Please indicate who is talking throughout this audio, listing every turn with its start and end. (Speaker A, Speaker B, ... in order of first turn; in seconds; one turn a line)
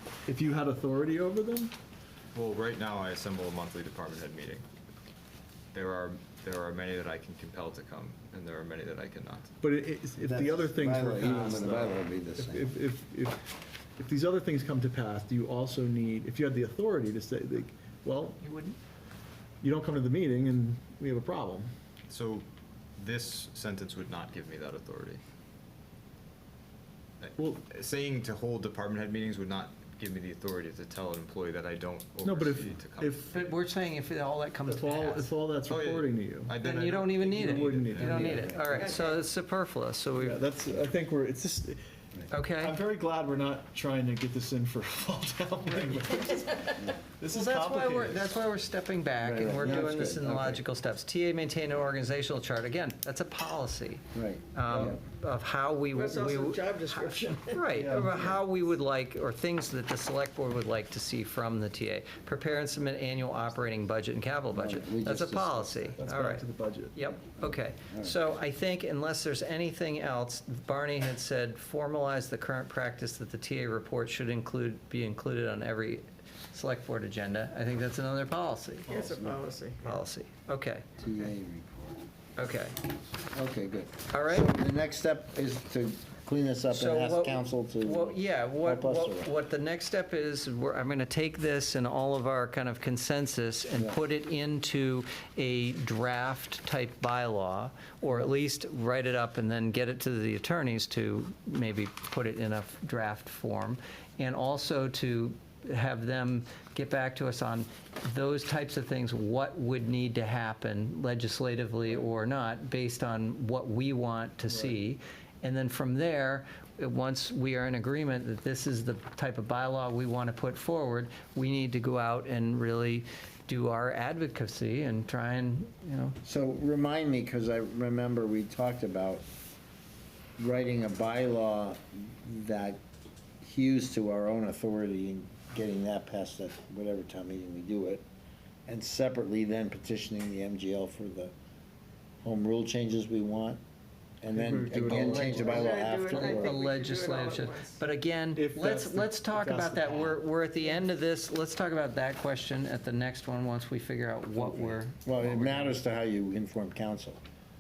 Speaker A: 0.3-1.7
Speaker B: 2.3-4.7
Speaker B: 5.7-9.5
Speaker A: 9.6-13.4
Speaker C: 10.2-12.7
Speaker A: 14.0-18.4
Speaker D: 18.4-18.7
Speaker A: 19.6-21.7
Speaker B: 22.1-22.5
Speaker B: 23.0-25.2
Speaker B: 27.2-33.4
Speaker A: 27.4-27.6
Speaker A: 32.2-33.4
Speaker D: 33.3-35.4
Speaker A: 34.7-36.6
Speaker B: 35.7-38.5
Speaker D: 36.6-40.4
Speaker A: 37.4-38.4
Speaker C: 38.2-38.9
Speaker E: 38.6-39.2
Speaker A: 40.2-41.8
Speaker D: 42.3-42.8
Speaker A: 42.6-48.4
Speaker D: 47.3-79.0
Speaker C: 49.4-50.6
Speaker C: 54.1-55.0
Speaker E: 55.9-57.7
Speaker A: 57.8-58.4
Speaker C: 64.5-65.9
Speaker A: 66.0-67.0
Speaker C: 67.4-68.3
Speaker E: 78.9-80.0
Speaker D: 79.8-80.8
Speaker C: 81.0-82.0
Speaker D: 82.4-82.8
Speaker C: 83.3-89.3
Speaker D: 84.1-84.5
Speaker D: 86.7-126.2
Speaker C: 93.8-94.0
Speaker C: 126.2-129.2
Speaker C: 130.4-132.8
Speaker C: 133.4-138.1
Speaker C: 138.7-141.3
Speaker C: 142.2-143.6
Speaker C: 144.2-146.5
Speaker A: 144.3-145.6
Speaker D: 145.0-145.5
Speaker E: 145.2-147.8
Speaker D: 146.1-155.0
Speaker A: 148.3-150.2
Speaker C: 154.4-157.2